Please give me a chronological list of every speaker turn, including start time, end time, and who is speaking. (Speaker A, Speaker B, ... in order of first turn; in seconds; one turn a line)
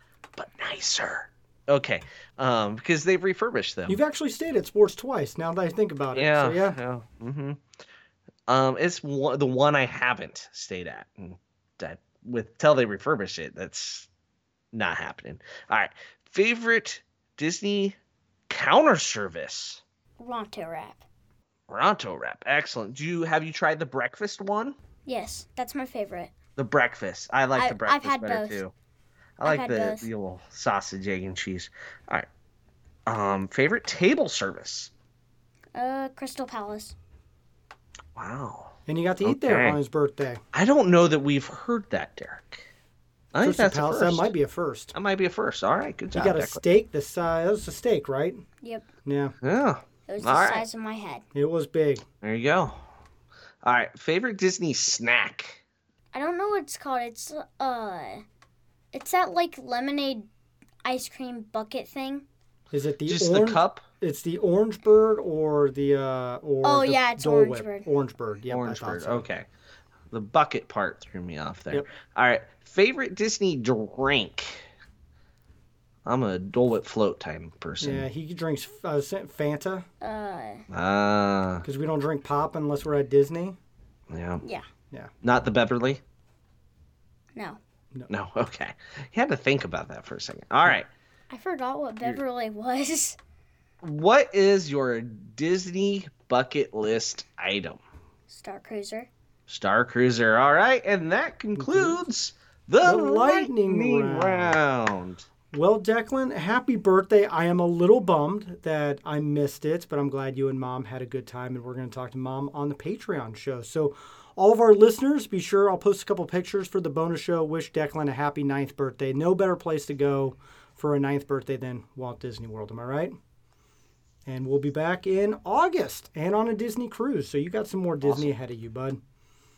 Speaker A: 0.3-4.0
Speaker B: 3.9-6.8
Speaker A: 6.1-7.6
Speaker A: 8.5-14.1
Speaker A: 14.7-18.0
Speaker A: 18.5-19.8
Speaker C: 20.2-21.0
Speaker A: 21.7-24.8
Speaker C: 25.1-26.3
Speaker A: 26.6-28.7
Speaker C: 27.6-28.6
Speaker A: 29.4-32.3
Speaker C: 29.4-30.1
Speaker A: 33.1-34.9
Speaker C: 35.7-37.0
Speaker A: 38.1-38.7
Speaker B: 38.9-40.4
Speaker A: 39.2-39.8
Speaker A: 40.5-42.6
Speaker A: 43.3-44.3
Speaker B: 43.4-44.9
Speaker A: 44.9-46.6
Speaker B: 46.1-48.4
Speaker B: 49.0-49.3
Speaker A: 49.4-50.6
Speaker C: 50.1-51.2
Speaker B: 51.3-52.0
Speaker A: 52.2-52.8
Speaker A: 53.6-55.6
Speaker C: 56.1-58.2
Speaker C: 58.9-60.3
Speaker C: 60.8-62.2
Speaker B: 62.7-69.3
Speaker A: 63.1-63.8
Speaker C: 66.6-67.9
Speaker A: 68.5-69.5
Speaker A: 70.1-74.6
Speaker A: 76.0-78.1
Speaker B: 77.8-79.8
Speaker C: 80.0-80.6
Speaker A: 80.7-81.6
Speaker B: 81.6-83.6
Speaker A: 84.1-84.4
Speaker A: 85.2-86.0
Speaker A: 88.1-90.9
Speaker C: 91.3-93.2
Speaker A: 93.8-97.8
Speaker C: 98.3-99.1
Speaker A: 99.5-105.2
Speaker B: 101.5-102.0
Speaker B: 102.8-104.6
Speaker B: 105.5-123.1
Speaker B: 124.2-129.0
Speaker A: 128.0-128.3